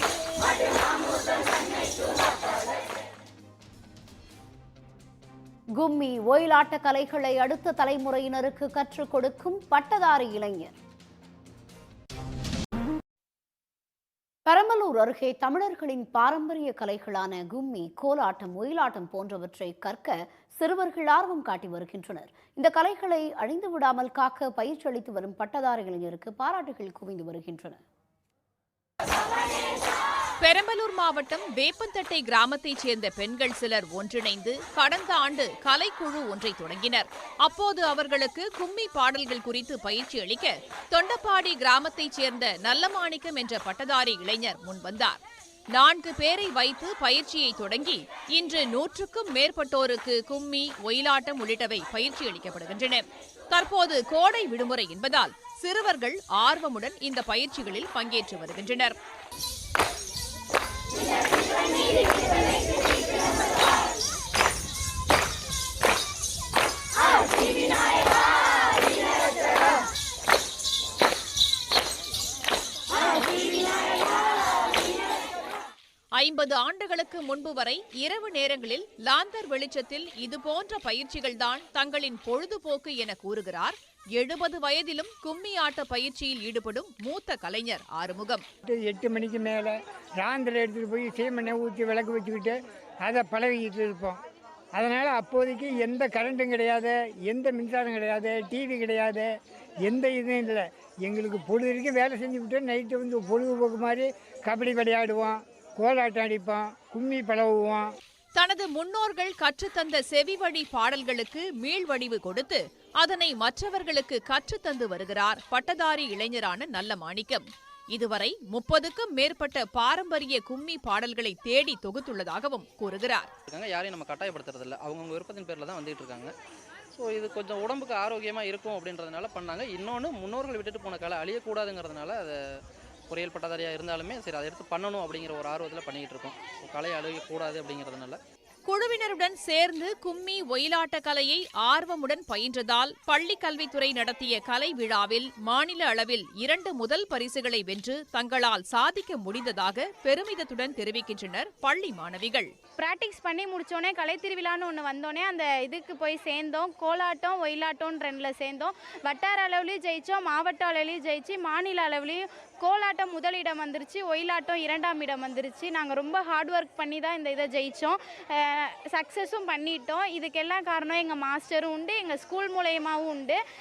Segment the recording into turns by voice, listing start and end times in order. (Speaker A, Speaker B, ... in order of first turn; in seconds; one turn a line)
Speaker A: 5.8-10.7
Speaker A: 14.5-27.8
Speaker B: 30.4-45.2
Speaker B: 45.8-59.0
Speaker B: 76.2-88.4
Speaker C: 88.7-94.2
Speaker C: 94.8-99.3
Speaker C: 99.9-107.9
Speaker B: 108.3-123.3
Speaker D: 123.5-126.3
Speaker D: 127.0-132.3
Speaker D: 133.1-138.2
Speaker B: 138.7-152.5
Speaker E: 152.8-173.4